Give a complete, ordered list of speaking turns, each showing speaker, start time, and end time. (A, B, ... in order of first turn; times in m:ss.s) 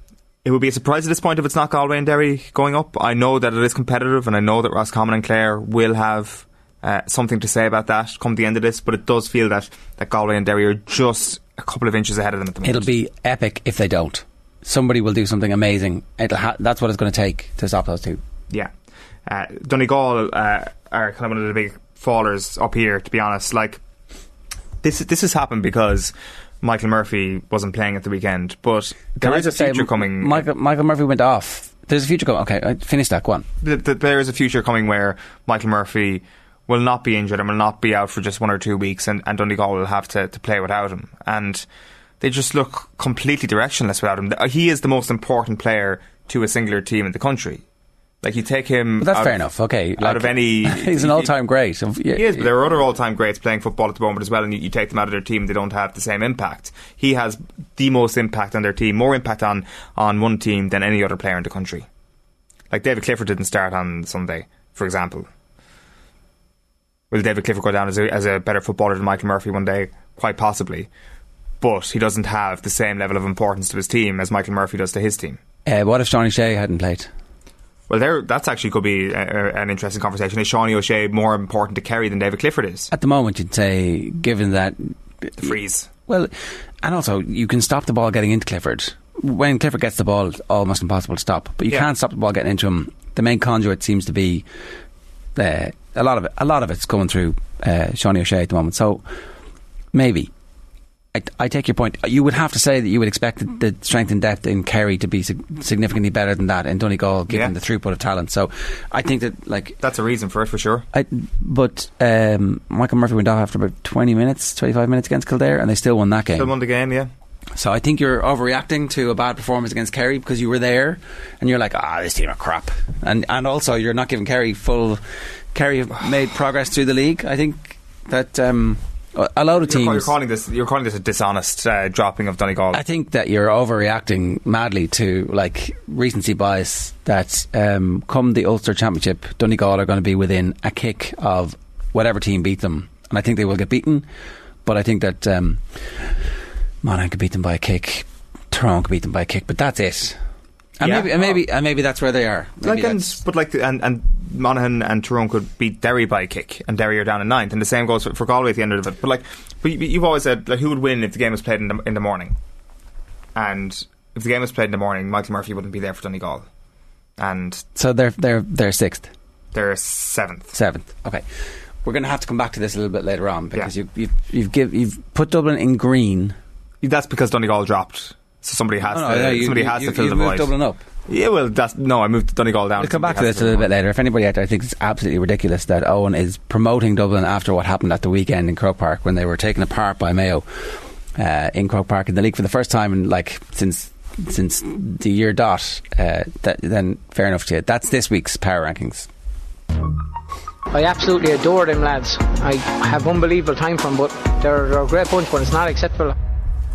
0:00.4-0:12.9 A
0:12.6-0:18.2 B
0:19.2-0:23.8 A
0:24.8-0:30.4 A
0:29.2-0:33.4 B
0:33.6-0:41.6 A
0:42.2-0:47.6 A
0:48.2-0:51.3 A
0:49.0-0:52.5 B
0:52.1-1:01.9 A
1:02.7-1:05.3 A
1:07.1-1:10.9 A
1:11.6-1:15.4 A
1:15.6-1:17.1 B
1:17.9-1:22.9 A
1:22.9-1:25.5 B
1:25.4-1:25.9 A
1:26.0-1:26.3 B
1:26.8-1:34.4 B
1:35.4-1:39.1 B
1:39.9-1:40.3 B
1:41.1-1:49.8 B
1:47.3-1:47.5 A
1:49.8-1:50.8 A
1:50.9-1:56.5 B
1:56.4-1:57.1 A
1:57.6-2:10.1 B
2:09.6-2:12.8 A
2:12.7-2:24.1 B
2:24.6-2:26.2 B
2:26.8-2:30.2 B
2:30.8-2:33.2 B
2:30.8-2:31.4 A
2:32.6-2:42.4 A
2:43.3-2:46.5 A
2:47.2-2:47.6 A
2:47.7-2:49.1 B
2:49.5-2:50.5 A
2:50.5-2:56.3 B
2:56.8-3:00.5 A
2:58.9-3:00.8 B
3:01.1-3:03.7 A
3:02.8-3:19.1 B
3:20.7-3:26.1 C